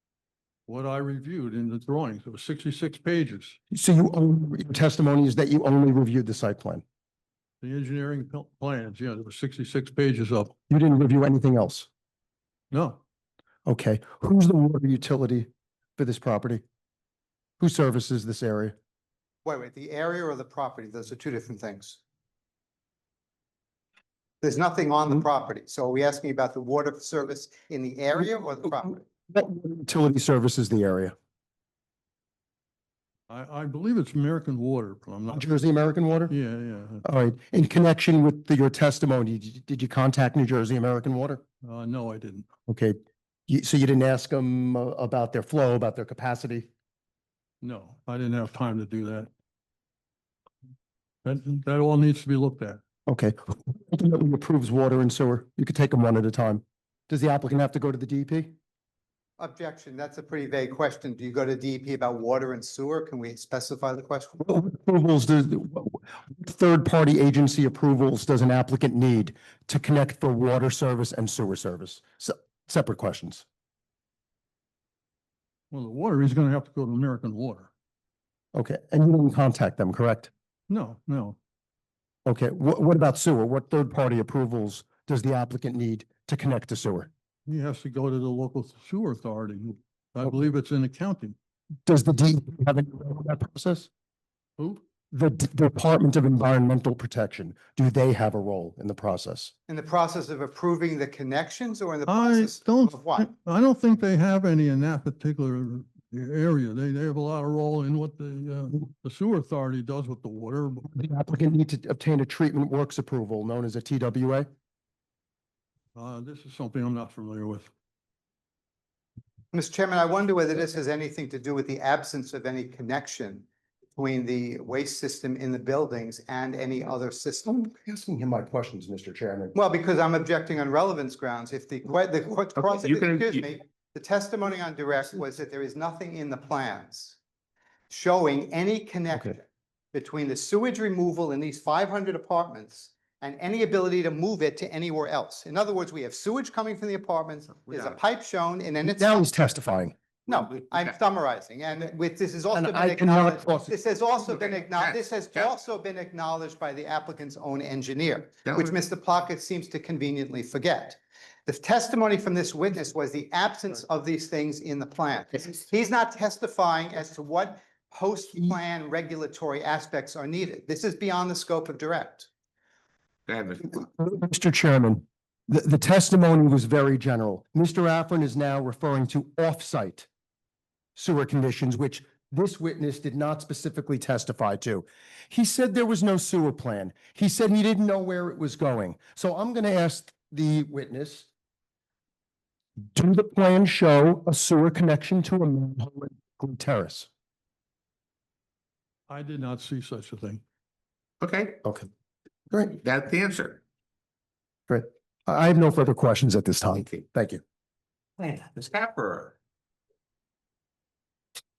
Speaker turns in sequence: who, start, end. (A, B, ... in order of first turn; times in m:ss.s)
0:00.7-0:03.6 A
0:03.7-0:06.8 B
0:07.6-0:10.6 A
0:10.7-0:11.9 B
0:12.7-0:13.0 A
0:13.7-0:16.6 B
0:17.6-0:18.8 B
0:19.4-0:22.0 C
0:24.4-0:29.0 C
0:28.6-0:31.1 B
0:33.3-0:35.5 A
0:35.3-0:36.4 B
0:36.3-0:37.0 A
0:37.0-0:41.4 B
0:41.6-0:42.5 A
0:42.7-0:43.0 B
0:43.5-0:46.7 B
0:47.6-0:49.3 A
0:51.2-0:52.8 A
0:53.1-0:58.5 B
0:59.4-1:04.4 C
1:04.4-1:13.4 B
1:15.7-1:17.7 A
1:18.5-1:20.3 B
1:20.7-1:21.4 A
1:22.2-1:27.1 B
1:27.5-1:31.4 A
1:31.9-1:33.9 B
1:34.6-1:34.8 A
1:35.1-1:39.5 B
1:39.7-1:43.3 C
1:42.1-1:50.9 A
1:50.9-1:54.5 B
1:56.0-1:57.7 A
1:59.5-2:07.6 C
2:07.6-2:09.6 B
2:09.6-2:17.2 C
2:12.6-2:13.4 D
2:17.9-2:29.2 C
2:28.8-2:30.0 B
2:30.3-2:52.3 C
2:32.5-2:33.8 B
2:53.3-2:53.6 D
2:53.6-3:00.1 B
3:01.0-3:11.3 B
3:12.9-3:17.1 B
3:19.1-3:20.4 A
3:21.2-3:21.6 D
3:21.6-3:21.9 B
3:22.8-3:23.6 D
3:24.7-3:27.4 B
3:28.2-3:29.4 D